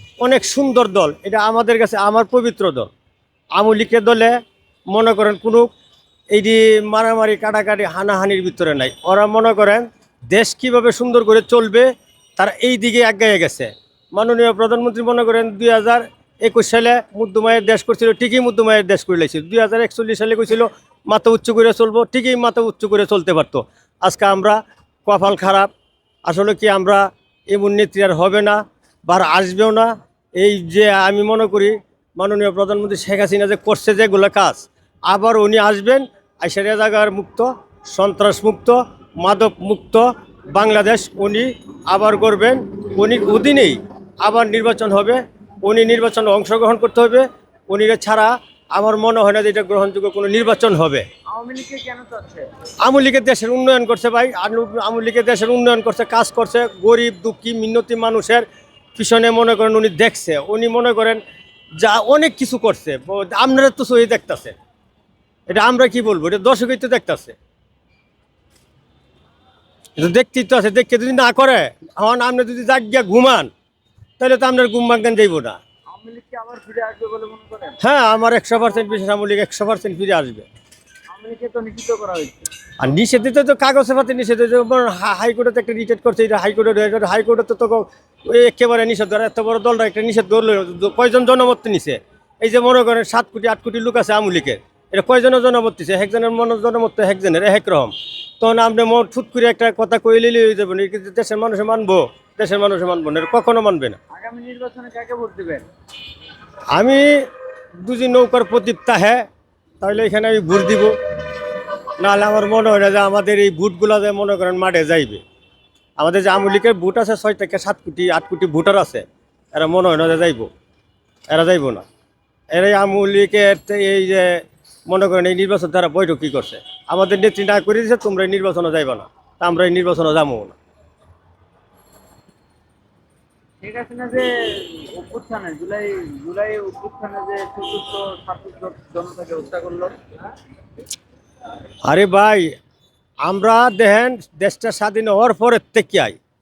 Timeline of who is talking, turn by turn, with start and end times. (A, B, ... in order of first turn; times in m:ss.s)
0:00.2-0:02.9 A
0:03.6-0:04.4 A
0:04.9-0:05.7 A
0:06.3-0:25.7 A
0:26.2-0:51.0 A
0:51.3-0:52.5 B
0:52.8-0:58.4 A
0:59.0-1:01.2 A
1:01.8-1:04.6 A
1:05.5-1:07.4 A
1:10.0-1:13.5 A
1:14.2-1:15.6 A
1:15.9-1:17.8 B
1:17.8-1:20.5 A
1:21.1-1:22.5 B
1:22.8-1:44.0 A
1:44.1-1:45.7 B
1:46.7-1:47.3 A
1:47.8-1:49.3 A
1:49.8-1:51.0 A
1:52.0-1:55.2 A
1:56.0-2:00.5 A
2:01.3-2:01.8 A
2:02.5-2:10.6 A
2:13.6-2:20.0 B
2:21.9-2:22.5 A
2:23.2-2:26.2 A